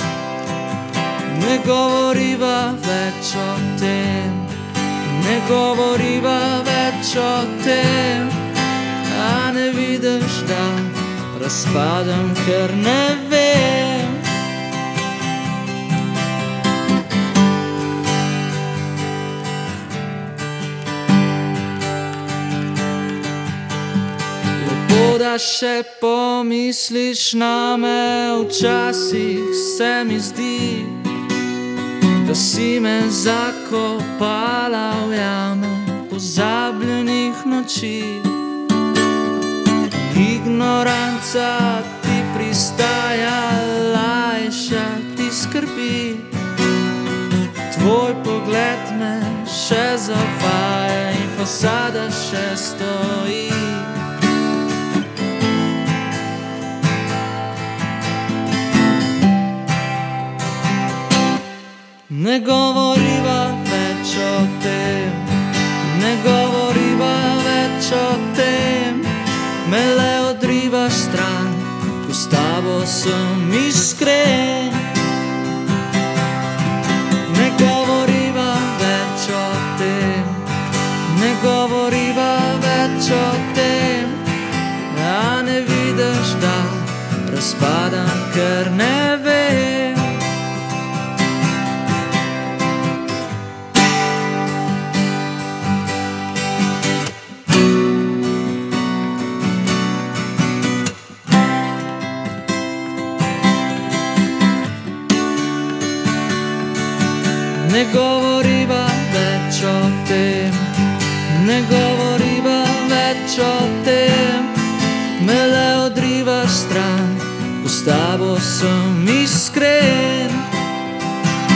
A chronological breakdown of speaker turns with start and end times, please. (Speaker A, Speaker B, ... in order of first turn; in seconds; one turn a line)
Speaker A: 1.3-14.3
Speaker A: 24.6-31.1
Speaker A: 32.2-38.4
Speaker A: 39.9-46.4
Speaker A: 47.7-54.0
Speaker A: 62.1-75.0
Speaker A: 77.3-80.5
Speaker A: 81.0-84.3
Speaker A: 84.9-90.2
Speaker A: 107.5-120.5